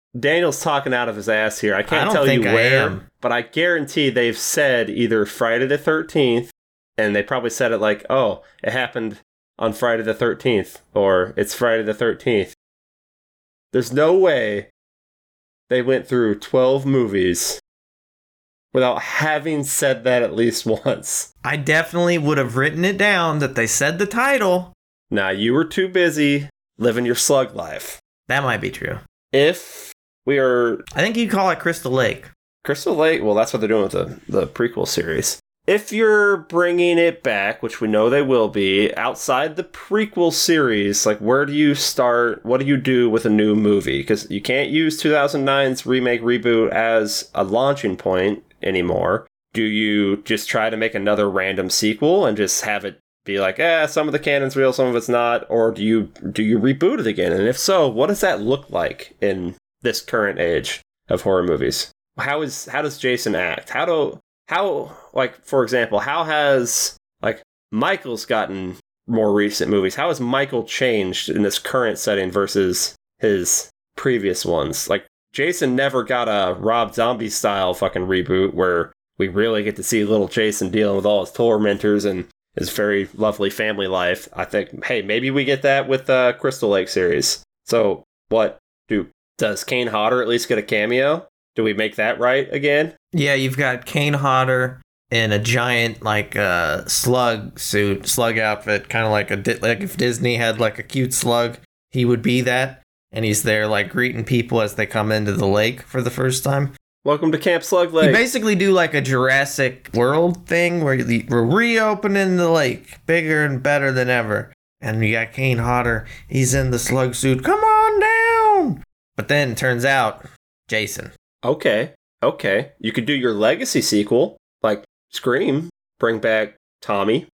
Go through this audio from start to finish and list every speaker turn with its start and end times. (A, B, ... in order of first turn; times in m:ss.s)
0:00.1-0:12.5 A
0:01.9-0:03.0 B
0:13.7-0:14.7 A
0:15.7-0:17.6 A
0:18.7-0:21.3 A
0:21.4-0:24.7 B
0:25.1-0:28.0 A
0:28.3-0:29.0 B
0:29.3-0:30.8 A
0:30.9-0:32.3 B
0:32.6-1:32.9 A
1:33.1-1:46.7 B
1:47.0-1:48.2 A
1:48.0-2:01.1 B
2:01.4-2:07.2 A